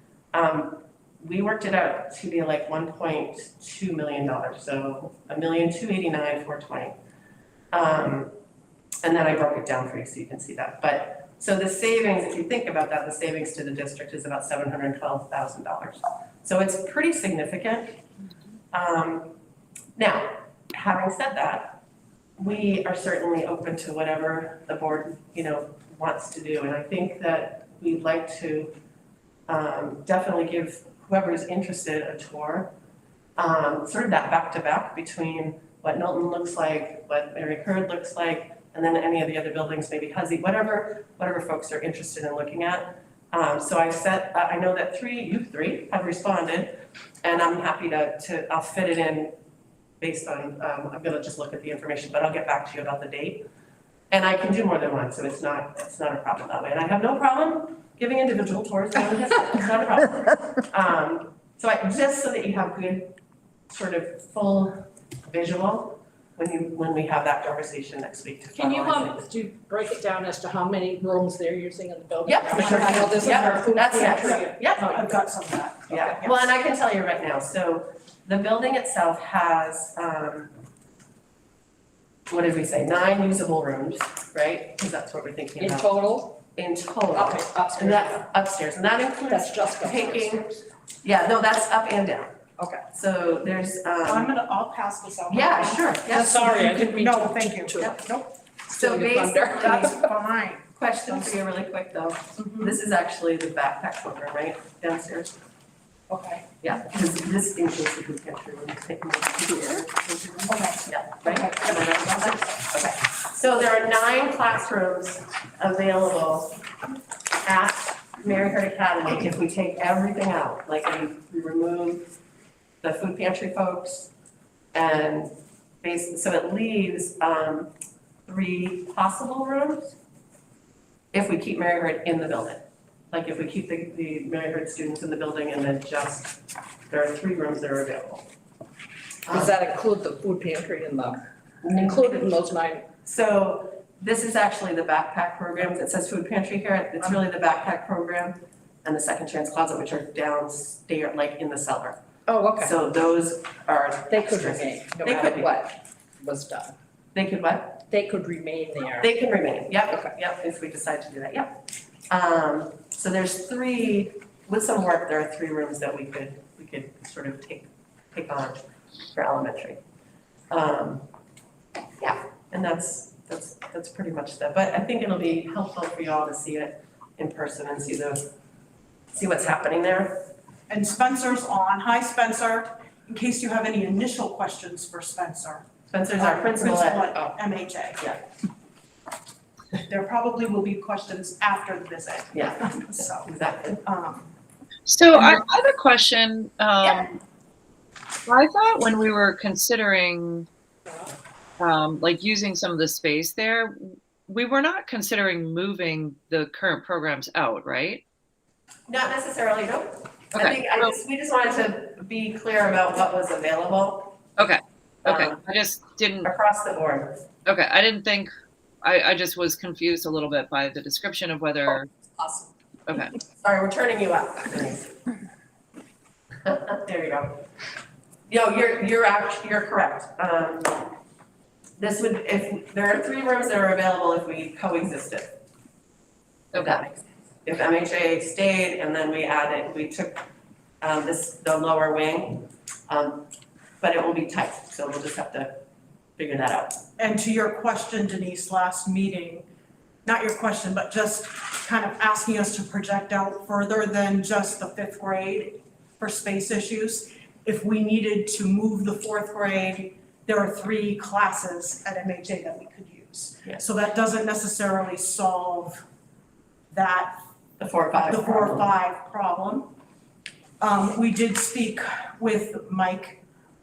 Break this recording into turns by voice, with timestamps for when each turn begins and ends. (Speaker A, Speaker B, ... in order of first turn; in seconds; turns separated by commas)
Speaker A: 0.3-7.0, Speaker A: 7.7-8.3, Speaker A: 9.0-18.0, Speaker A: 18.7-19.3, Speaker A: 19.9-21.8, Speaker A: 22.4-28.7, Speaker A: 29.5-32.7, Speaker A: 33.4-49.3, Speaker A: 50.0-53.5, Speaker A: 54.1-63.1, Speaker A: 63.7-69.2, Speaker B: 68.5-75.1, Speaker A: 72.2-75.0, Speaker C: 72.5-76.5, Speaker A: 75.9-80.5, Speaker A: 82.3-86.0, Speaker B: 85.6-86.4, Speaker A: 86.5-90.5, Speaker B: 87.1-88.2, Speaker B: 89.3-90.6, Speaker A: 91.0-92.3, Speaker B: 92.6-92.8, Speaker A: 92.9-94.3, Speaker C: 94.0-98.3, Speaker A: 95.3-96.5, Speaker B: 96.1-98.0, Speaker B: 98.7-100.1, Speaker A: 98.7-99.9, Speaker C: 99.1-101.3, Speaker A: 100.8-105.4, Speaker C: 102.4-102.8, Speaker B: 106.1-106.4, Speaker A: 106.6-116.5, Speaker B: 110.6-112.3, Speaker A: 117.4-122.2, Speaker A: 122.8-124.1, Speaker A: 124.7-127.7, Speaker A: 128.3-129.9, Speaker A: 131.1-136.4, Speaker A: 136.9-138.3, Speaker A: 139.3-139.5, Speaker B: 139.3-142.8, Speaker A: 141.6-142.4, Speaker A: 143.0-152.0, Speaker B: 152.3-152.8, Speaker A: 152.6-155.6, Speaker B: 154.1-156.7, Speaker A: 157.1-157.8, Speaker B: 157.9-159.1, Speaker A: 159.0-161.6, Speaker A: 162.1-168.6, Speaker A: 169.1-169.8, Speaker A: 170.5-171.1, Speaker A: 172.0-178.3, Speaker A: 179.1-180.3, Speaker C: 180.7-185.7, Speaker A: 185.9-187.4, Speaker C: 186.2-188.0, Speaker C: 189.8-194.3, Speaker A: 192.3-193.8, Speaker D: 194.8-197.1, Speaker D: 198.3-200.5, Speaker D: 201.6-208.0, Speaker A: 208.9-214.2, Speaker D: 210.3-210.9, Speaker D: 214.4-216.3, Speaker A: 215.0-215.4, Speaker A: 216.2-217.2, Speaker D: 217.4-218.3, Speaker D: 218.8-221.9, Speaker A: 222.2-222.5, Speaker D: 222.8-223.1, Speaker A: 223.3-225.0, Speaker A: 226.4-227.4, Speaker A: 228.3-230.9, Speaker A: 231.8-235.3, Speaker D: 236.5-236.8, Speaker A: 236.5-240.2, Speaker A: 240.8-243.2, Speaker A: 243.8-245.6, Speaker A: 246.2-246.8, Speaker C: 247.0-249.4, Speaker C: 250.0-265.8, Speaker C: 266.7-267.2, Speaker A: 267.6-268.7, Speaker C: 268.0-269.7, Speaker C: 270.6-273.2